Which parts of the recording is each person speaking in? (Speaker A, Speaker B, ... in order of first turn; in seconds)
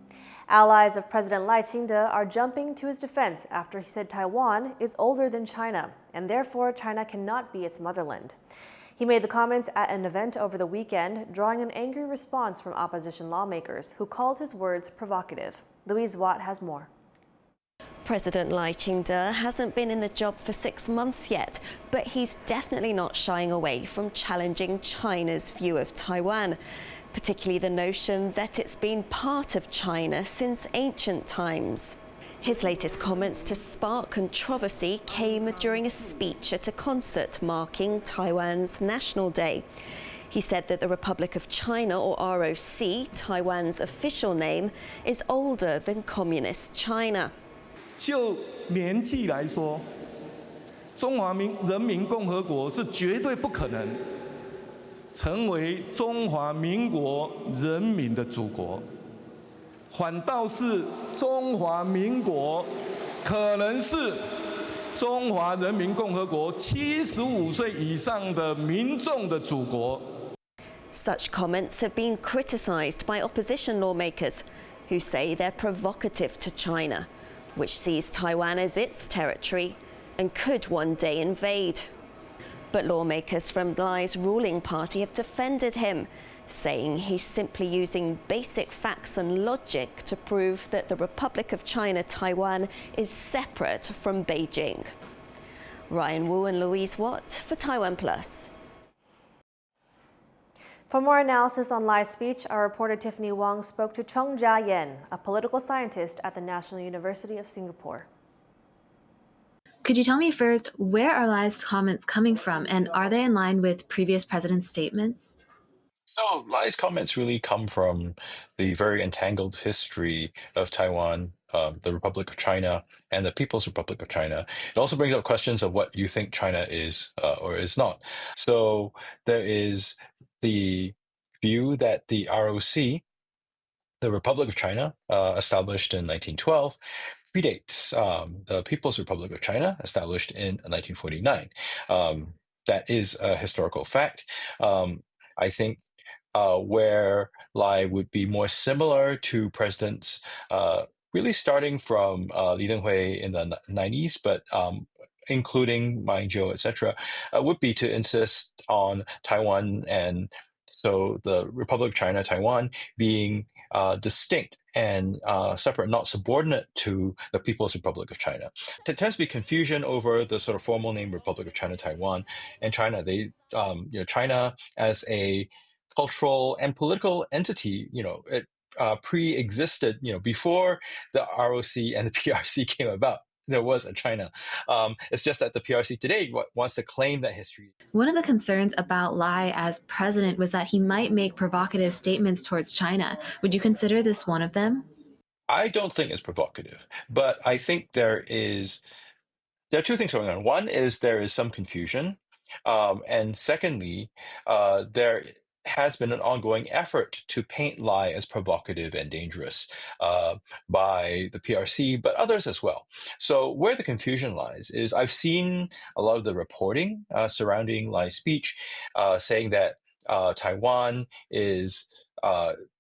Speaker A: 0.5-8.4, 9.0-16.9, 100.9-108.1
Speaker B: 18.1-26.6, 27.1-39.7, 40.3-47.3, 70.9-81.9, 82.7-94.9, 95.9-98.5
Speaker C: 48.0-49.8, 51.0-54.0, 55.1-58.8, 59.9-62.7, 63.2-64.2, 65.0-70.0
Speaker D: 109.8-115.3, 187.9-194.9
Speaker E: 116.1-133.0, 134.0-136.8, 137.3-145.8, 146.3-187.7, 195.5-198.8, 199.7-222.5